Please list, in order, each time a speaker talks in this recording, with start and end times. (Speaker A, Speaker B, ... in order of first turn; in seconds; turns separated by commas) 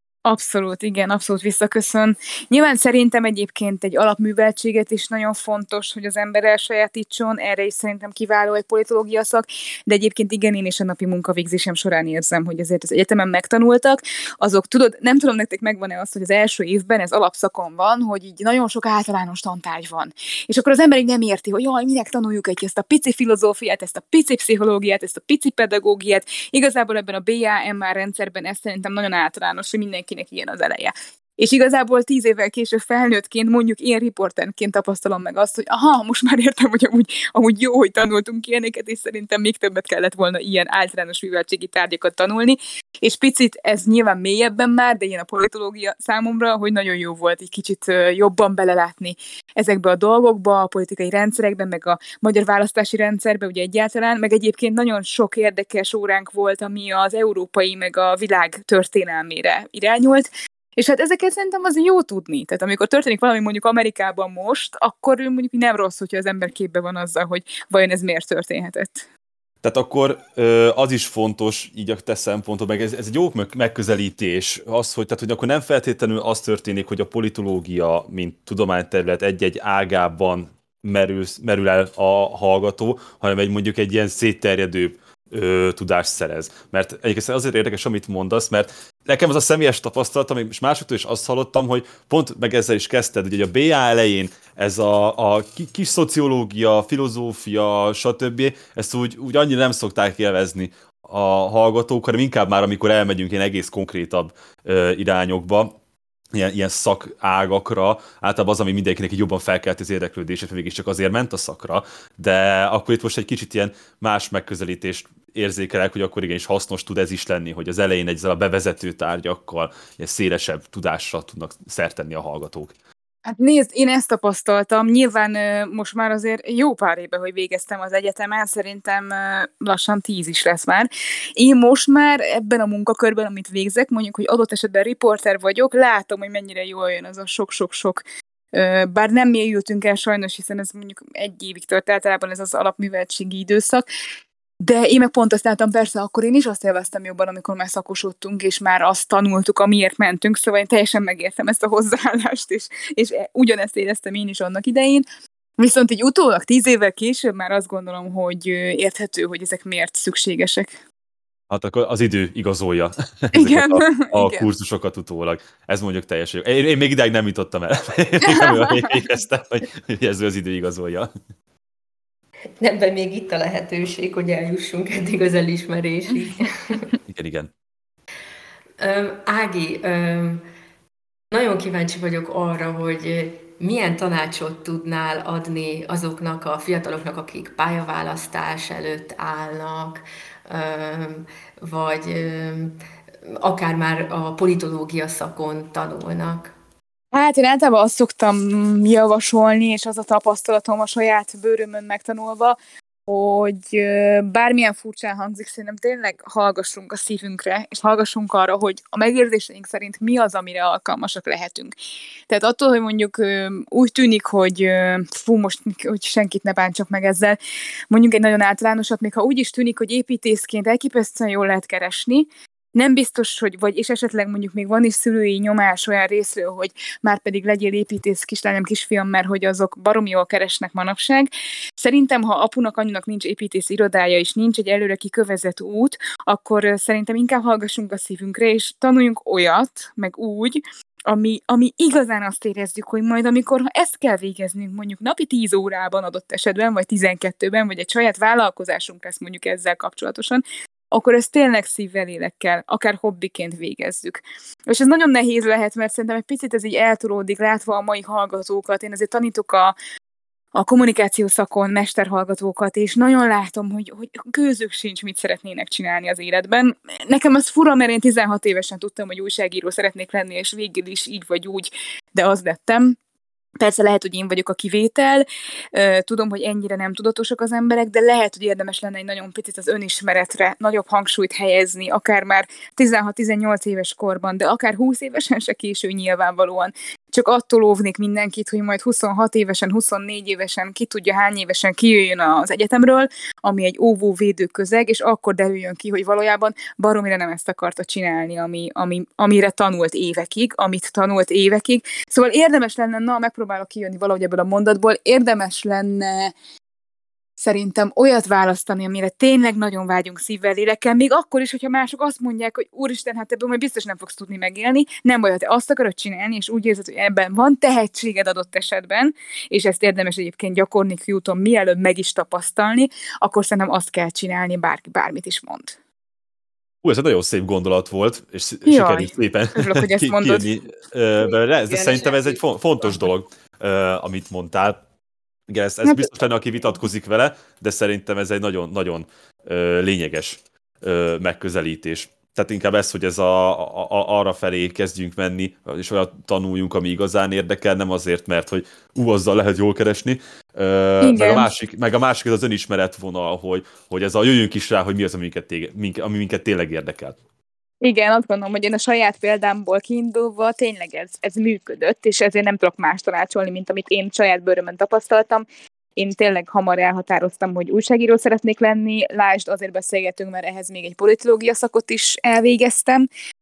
Speaker A: 0.2-69.0, Speaker B: 69.6-105.7, Speaker B: 106.3-122.7, Speaker A: 123.2-143.8, Speaker A: 144.6-155.0, Speaker A: 155.6-160.8, Speaker B: 161.5-171.1, Speaker A: 163.3-164.5, Speaker A: 168.2-169.0, Speaker C: 172.6-176.9, Speaker B: 177.1-177.5, Speaker C: 178.8-180.4, Speaker C: 181.3-196.5, Speaker A: 197.1-211.7, Speaker A: 212.3-217.4, Speaker A: 217.9-259.7, Speaker A: 260.5-272.9, Speaker A: 273.6-306.3, Speaker A: 307.4-325.8, Speaker B: 326.8-334.8, Speaker A: 328.6-330.5, Speaker C: 331.2-333.1, Speaker B: 335.5-357.2, Speaker A: 335.8-336.1, Speaker A: 351.0-351.5, Speaker A: 357.8-365.4, Speaker A: 365.9-373.1